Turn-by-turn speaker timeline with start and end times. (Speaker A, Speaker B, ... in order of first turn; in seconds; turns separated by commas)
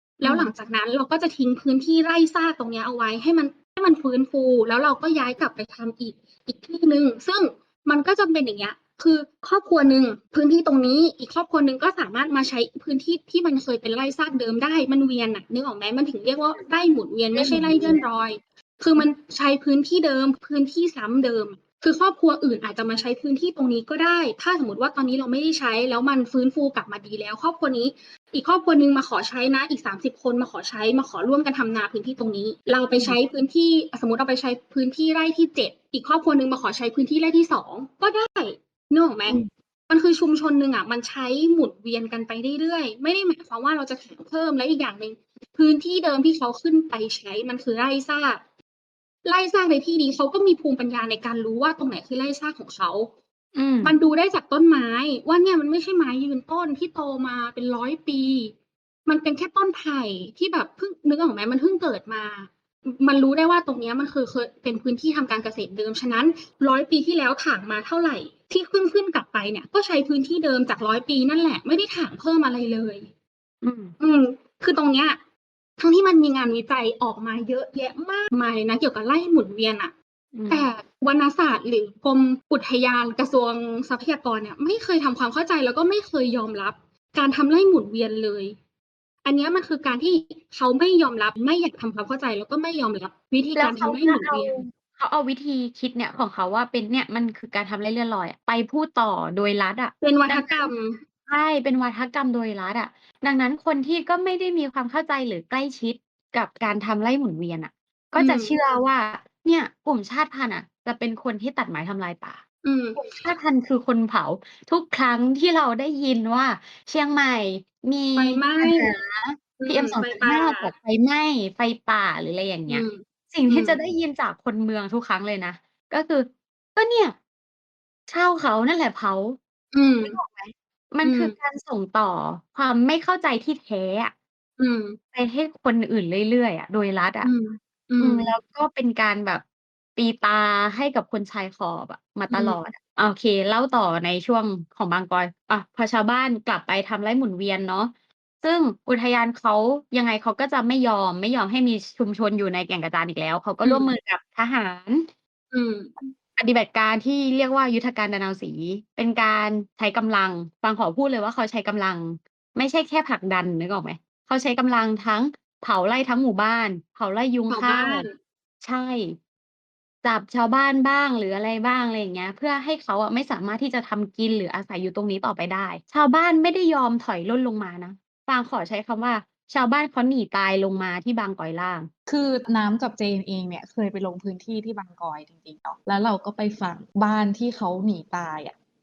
Speaker A: 0.2-48.4, Speaker B: 0.2-0.5, Speaker B: 17.4-18.0, Speaker B: 33.0-33.2, Speaker A: 49.2-53.1, Speaker B: 53.5-54.0, Speaker A: 53.8-58.5, Speaker A: 59.0-73.1, Speaker B: 73.6-73.9, Speaker A: 74.0-75.2, Speaker A: 75.8-79.9, Speaker B: 80.3-80.7, Speaker A: 80.5-88.6, Speaker A: 89.2-94.6, Speaker B: 93.5-100.7, Speaker A: 100.0-101.0, Speaker B: 101.3-112.4, Speaker A: 108.2-108.6, Speaker A: 112.6-113.2, Speaker B: 113.0-127.2, Speaker A: 118.2-119.0, Speaker A: 119.6-120.7, Speaker A: 122.7-123.8, Speaker B: 128.1-129.4, Speaker A: 129.7-130.2, Speaker B: 130.0-134.1, Speaker A: 131.0-131.4, Speaker A: 134.6-135.0, Speaker B: 135.1-137.3, Speaker A: 137.2-138.3, Speaker B: 138.0-139.4, Speaker B: 139.9-155.1, Speaker A: 142.3-142.6, Speaker A: 153.6-153.9, Speaker A: 155.5-155.9, Speaker B: 156.0-168.1, Speaker A: 167.5-168.2, Speaker B: 168.6-169.2, Speaker B: 170.0-181.9, Speaker C: 182.1-188.5